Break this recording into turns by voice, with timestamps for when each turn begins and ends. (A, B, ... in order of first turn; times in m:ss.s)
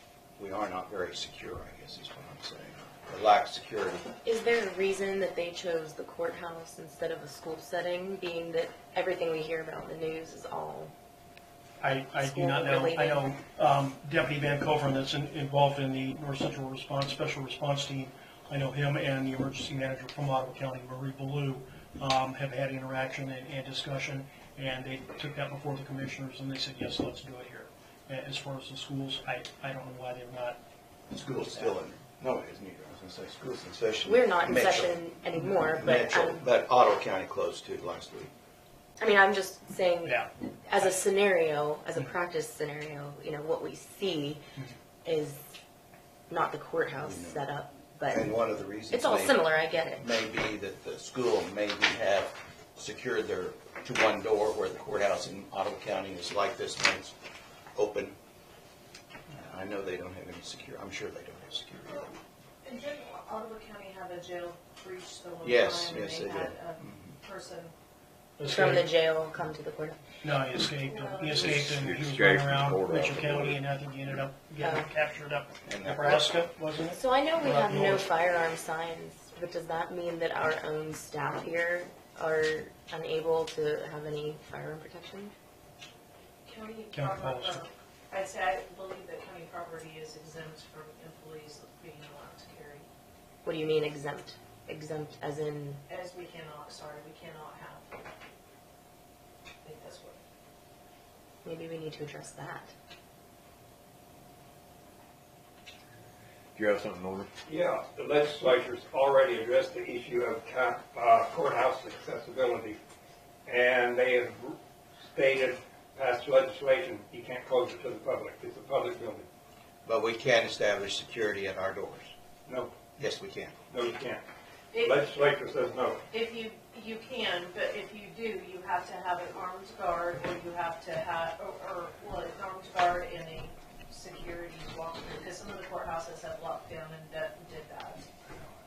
0:00.4-0:04.1 A
0:04.2-0:10.9 B
0:11.8-0:30.6 C
0:12.2-0:13.3 B
0:31.1-0:35.0 A
0:34.0-0:36.4 B
0:35.8-0:38.3 A
0:39.0-0:44.4 B
0:40.0-0:40.3 C
0:45.0-0:45.5 B
0:46.3-0:48.3 B
0:47.0-0:47.4 A
0:48.1-0:49.4 A
0:48.9-0:50.0 B
0:50.0-0:57.2 A
0:57.8-0:58.2 A
0:59.3-1:02.2 A
1:01.9-1:02.1 D
1:02.6-1:07.7 D
1:05.4-1:07.2 A
1:08.4-1:08.9 C
1:08.4-1:10.0 B
1:10.2-1:18.1 C
1:10.8-1:11.5 D
1:11.4-1:13.6 E
1:14.6-1:14.9 B
1:15.6-1:16.3 A
1:16.9-1:25.3 B
1:26.4-1:32.9 D
1:26.9-1:27.6 C
1:33.4-1:35.8 B
1:35.9-1:37.9 D
1:39.6-1:40.2 D
1:41.4-1:42.7 B
1:46.6-1:47.3 E
1:47.5-1:52.8 F
1:53.4-1:54.6 F
1:55.1-1:59.2 F
1:59.9-2:02.1 A
2:02.5-2:02.7 F
2:03.0-2:03.6 A
2:03.7-2:04.2 F
2:04.7-2:05.1 D
2:04.8-2:06.0 F
2:06.1-2:18.0 D